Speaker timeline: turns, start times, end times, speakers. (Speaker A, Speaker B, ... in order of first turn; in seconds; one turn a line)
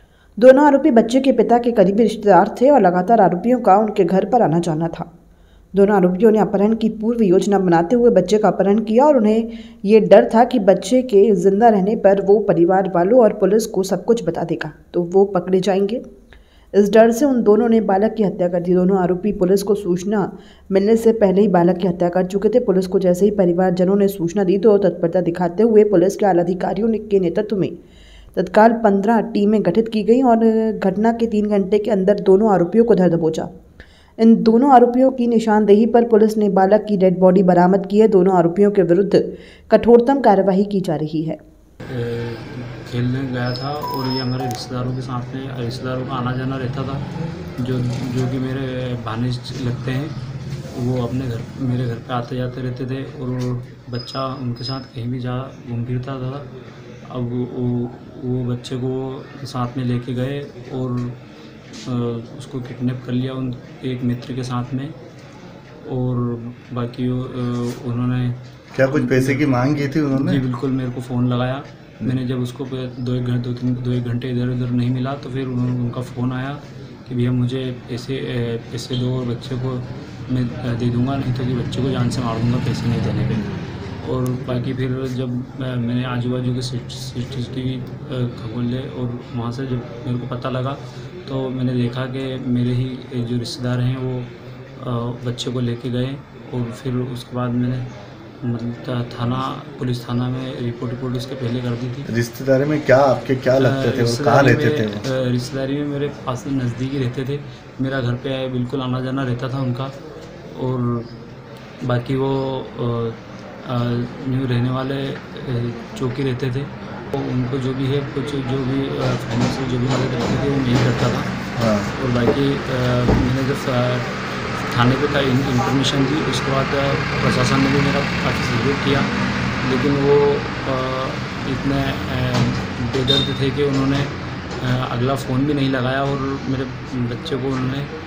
Speaker A: 0.4-5.1
Speaker A: 5.7-16.0
Speaker A: 16.7-27.7
Speaker A: 28.3-33.5
Speaker A: 34.2-41.4
Speaker B: 41.9-50.1
Speaker B: 50.7-56.5
Speaker B: 57.0-61.2
Speaker B: 61.7-64.9
Speaker B: 65.8-68.4
Speaker C: 68.7-70.4
Speaker B: 68.9-69.5
Speaker B: 70.1-83.5
Speaker B: 84.0-97.9
Speaker B: 98.4-102.1
Speaker C: 102.1-105.0
Speaker B: 103.6-109.9
Speaker B: 110.5-111.1
Speaker B: 111.8-121.3
Speaker C: 121.5-121.9
Speaker B: 121.9-124.1
Speaker B: 124.6-129.1
Speaker B: 129.6-137.9